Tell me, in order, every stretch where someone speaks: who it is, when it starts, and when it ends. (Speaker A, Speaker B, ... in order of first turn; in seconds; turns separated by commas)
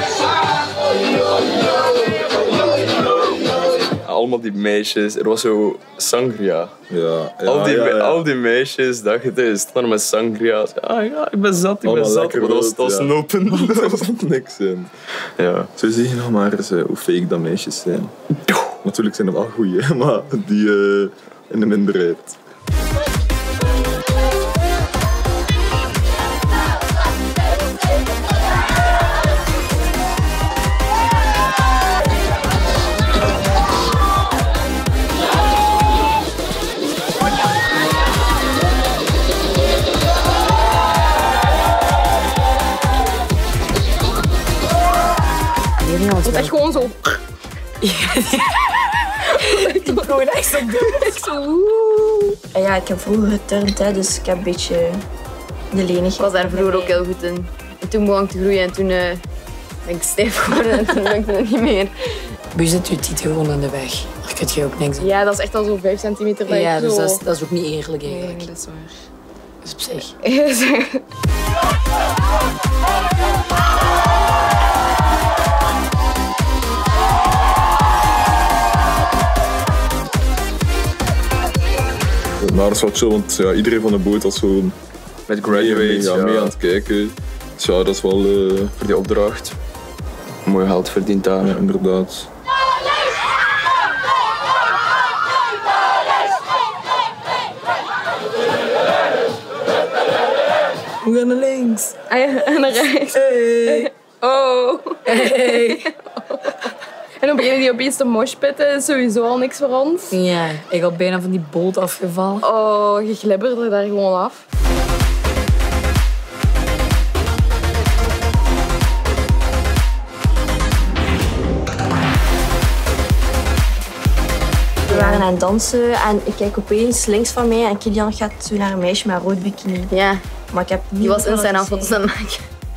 Speaker A: 3.9-6.7, Speaker B: 6.9-8.2, Speaker A: 7.5-14.1, Speaker B: 11.8-14.9, Speaker A: 15.4-15.7, Speaker B: 15.7-18.1, Speaker B: 18.8-22.4, Speaker C: 45.8-46.6, Speaker D: 46.2-47.1, Speaker C: 47.8-48.7, Speaker C: 49.2-51.2, Speaker D: 49.5-50.0, Speaker D: 50.8-52.3, Speaker E: 52.5-55.0, Speaker E: 55.7-56.5, Speaker F: 56.2-59.2, Speaker F: 59.8-62.1, Speaker C: 62.5-65.1, Speaker D: 65.0-67.2, Speaker C: 66.5-68.5, Speaker D: 68.0-69.0, Speaker C: 69.6-70.1, Speaker D: 69.9-71.0, Speaker B: 82.4-84.7, Speaker A: 85.3-86.5, Speaker B: 85.5-88.9, Speaker A: 88.9-89.5, Speaker A: 90.5-91.5, Speaker B: 91.4-92.3, Speaker C: 101.0-101.9, Speaker D: 102.1-106.7, Speaker C: 103.2-103.8, Speaker C: 105.0-105.9, Speaker D: 107.2-110.2, Speaker C: 110.1-112.4, Speaker D: 112.4-114.4, Speaker E: 124.8-129.9, Speaker F: 124.9-125.3, Speaker F: 129.9-130.2, Speaker E: 130.5-132.0, Speaker F: 131.0-132.4